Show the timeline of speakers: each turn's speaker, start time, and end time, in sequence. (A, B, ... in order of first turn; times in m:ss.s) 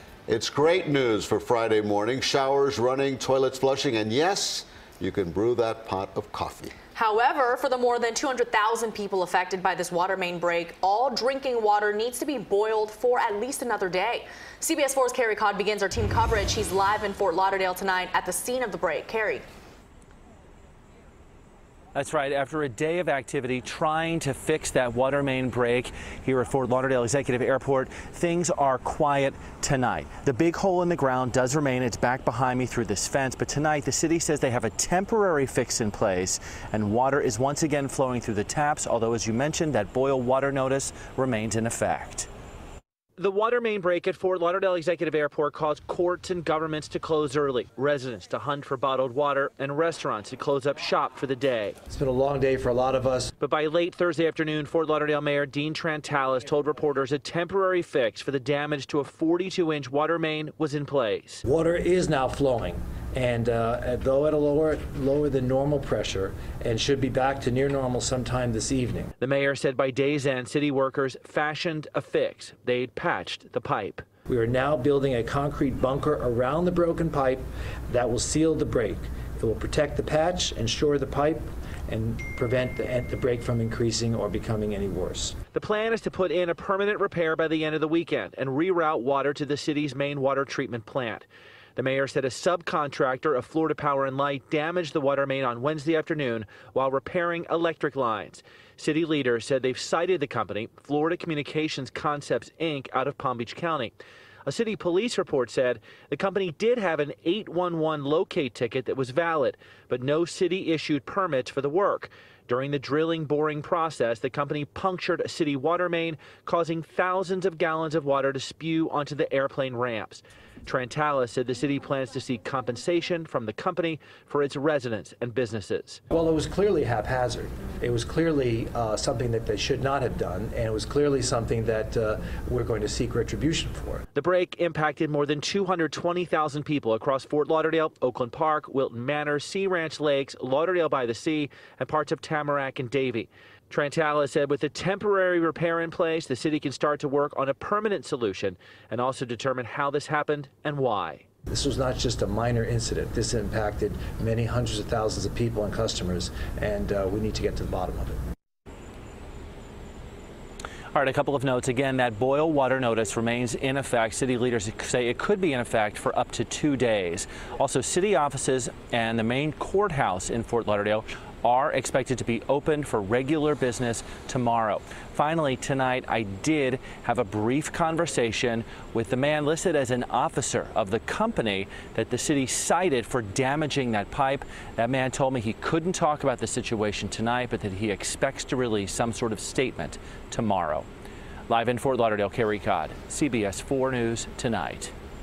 0:00.3-0:06.7 A
0:07.0-0:19.4 B
0:22.0-0:42.3 C
0:43.2-0:51.8 C
0:51.9-0:53.3 D
0:53.4-1:01.4 C
1:01.4-1:09.1 D
1:09.2-1:14.0 C
1:14.3-1:25.4 D
1:25.5-1:43.9 C
1:44.4-2:06.0 C
2:06.1-2:14.0 D
2:14.2-2:31.2 C
2:31.5-2:38.2 D
2:40.9-3:10.9 C
3:11.5-3:14.9 C